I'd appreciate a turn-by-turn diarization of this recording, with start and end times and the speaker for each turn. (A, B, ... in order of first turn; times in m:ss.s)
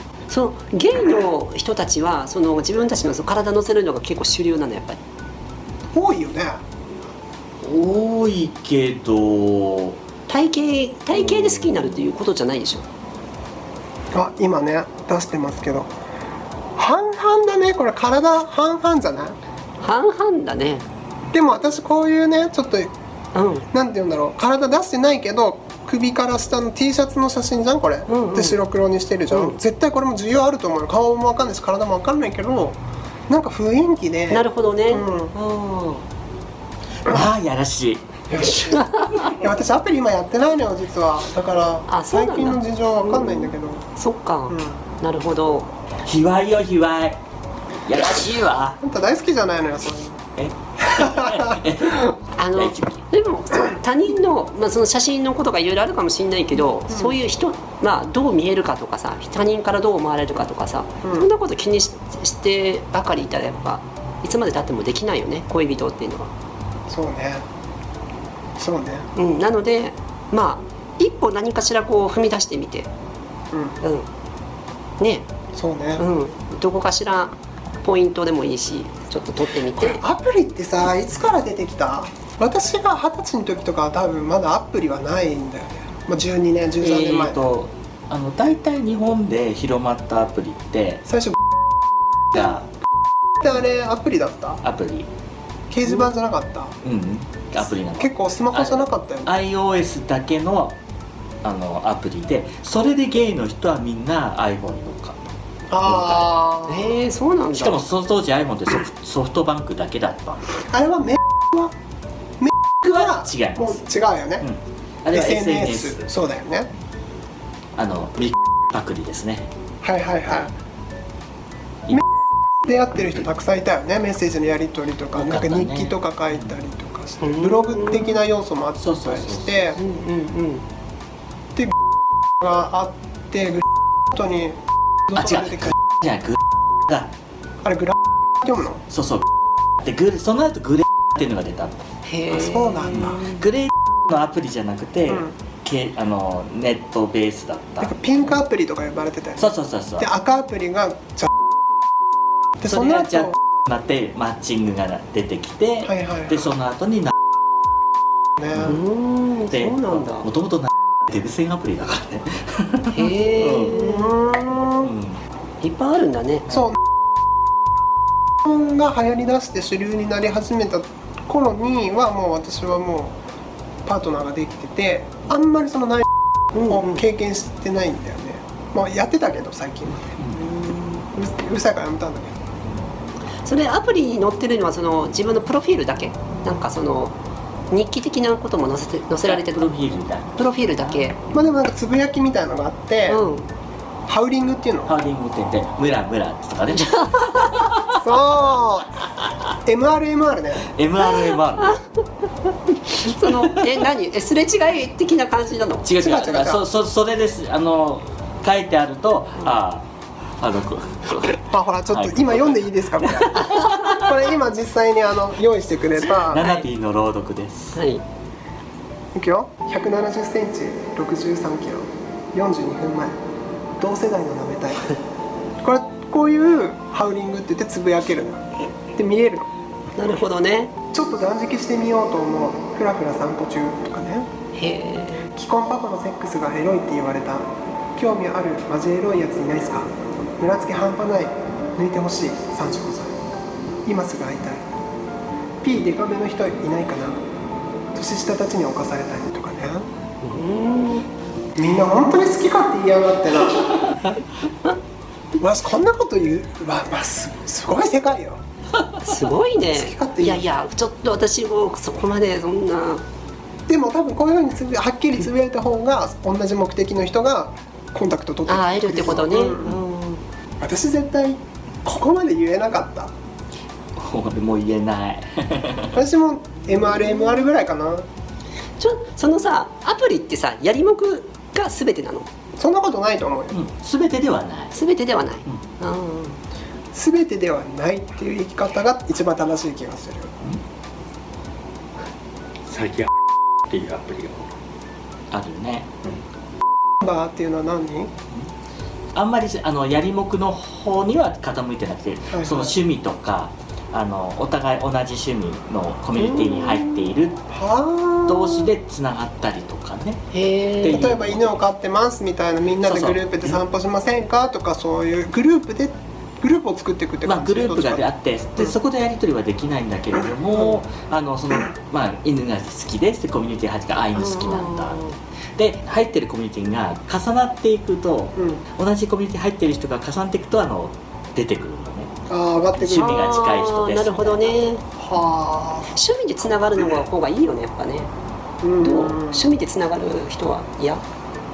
0:00.3-0:05.0 A
0:05.9-0:06.6 B
0:07.6-0:10.0 C
0:10.3-0:12.8 A
0:11.1-0:12.0 C
0:14.1-0:15.9 B
0:16.8-0:19.4 B
0:19.8-0:20.8 A
0:21.3-0:22.9 B
0:23.4-0:23.7 A
0:23.7-0:35.3 B
0:28.1-0:28.6 A
0:29.3-0:29.6 A
0:34.3-0:36.0 A
0:37.0-0:39.3 C
0:38.3-0:43.8 B
0:38.5-0:39.3 A
0:41.9-0:45.7 A
0:44.5-0:44.8 B
0:46.0-0:47.2 C
0:47.9-0:48.8 C
0:48.8-0:50.2 B
0:50.4-0:53.0 C
0:50.9-0:51.6 B
0:52.4-1:06.3 A
0:56.9-0:57.2 B
1:01.0-1:01.3 B
1:06.9-1:07.4 B
1:08.6-1:09.1 B
1:09.2-1:12.9 A
1:13.5-1:13.8 B
1:13.8-1:14.1 A
1:15.0-1:15.3 A
1:15.5-1:16.0 B
1:16.0-1:20.0 A
1:19.8-1:27.4 B
1:26.8-1:31.0 C
1:31.1-1:31.4 B
1:32.3-1:32.7 C
1:33.4-1:34.6 B
1:34.6-1:35.1 C
1:35.7-1:36.8 B
1:36.8-1:40.8 C
1:38.0-1:39.4 B
1:41.4-1:46.3 C
1:45.7-1:47.0 B
1:46.7-1:47.8 A
1:47.6-1:50.5 C
1:50.6-1:51.7 B
1:52.4-1:54.4 B
1:52.8-1:53.8 C
1:54.4-1:56.1 C
1:55.1-1:56.7 B
1:57.8-1:59.5 C
1:59.8-2:00.5 B
2:02.6-2:09.8 B
2:05.1-2:06.5 C
2:07.2-2:08.2 A
2:08.8-2:09.8 C
2:09.8-2:10.6 A
2:12.4-2:15.7 B
2:15.2-2:17.1 C
2:17.6-2:18.8 B
2:18.9-2:19.2 C
2:19.8-2:21.8 C
2:22.0-2:23.4 A
2:22.3-2:23.3 B
2:22.9-2:28.0 C
2:27.8-2:31.3 B
2:29.4-2:30.1 C
2:32.6-2:33.3 B
2:32.6-2:37.1 C
2:35.8-2:36.4 B
2:38.4-2:38.8 B
2:38.5-2:38.8 C
2:38.6-2:40.3 A
2:39.5-2:43.8 C
2:42.9-2:44.2 A
2:43.7-2:44.9 B
2:44.8-2:45.2 C
2:45.6-2:46.5 A
2:46.5-2:46.8 B
2:48.4-2:53.2 B
2:53.9-3:00.4 B
2:56.6-2:57.0 A
3:00.4-3:01.0 A
3:01.1-3:02.4 B
3:03.4-3:07.2 A
3:07.7-3:09.7 A
3:09.2-3:11.0 C
3:10.4-3:11.2 A
3:11.3-3:13.3 B
3:13.1-3:13.5 A
3:14.1-3:15.0 B
3:14.9-3:18.0 C
3:18.0-3:19.1 B
3:19.1-3:19.3 C
3:19.6-3:20.7 B
3:20.7-3:21.8 C
3:22.8-3:25.9 A
3:23.1-3:23.6 C
3:25.8-3:29.9 C
3:26.0-3:26.6 B
3:30.4-3:32.6 C
3:31.5-3:36.4 B
3:33.4-3:34.0 C
3:36.0-3:37.8 C
3:37.8-3:38.0 A
3:39.2-3:43.1 B
3:43.8-3:45.0 B
3:45.6-3:49.5 B
3:50.0-3:50.8 A
3:50.9-3:54.3 B
3:54.5-3:55.3 A
3:55.4-4:03.2 B
4:03.9-4:04.7 B
4:05.6-4:07.2 B
4:07.9-4:09.9 B
4:10.2-4:11.1 A
4:11.6-4:13.9 B
4:15.4-4:18.4 B
4:19.0-4:23.0 A
4:19.7-4:20.5 B
4:23.7-4:29.8 B
4:28.5-4:30.2 A
4:30.6-4:33.1 B
4:34.0-4:36.0 C
4:35.9-4:38.1 B
4:38.8-4:42.3 A
4:42.6-4:43.6 B
4:43.5-4:44.8 C
4:44.7-4:46.4 A
4:46.9-4:50.3 B
4:52.7-4:53.1 C
4:53.7-4:54.5 C
4:55.3-4:56.2 C
4:57.0-4:58.1 B
4:59.2-5:07.5 C
5:02.3-5:02.8 B
5:06.4-5:06.8 A
5:07.5-5:08.7 B
5:08.3-5:10.2 C
5:10.3-5:11.1 A
5:10.8-5:11.6 C
5:10.9-5:18.8 B
5:12.8-5:13.6 C
5:17.2-5:25.0 C
5:24.2-5:25.2 A
5:25.6-5:32.1 C
5:28.4-5:28.6 B
5:32.3-5:33.3 B
5:32.8-5:34.6 C
5:33.0-5:34.8 A
5:35.0-5:36.0 B
5:36.0-5:38.1 A
5:38.6-5:39.5 B
5:38.8-5:41.0 A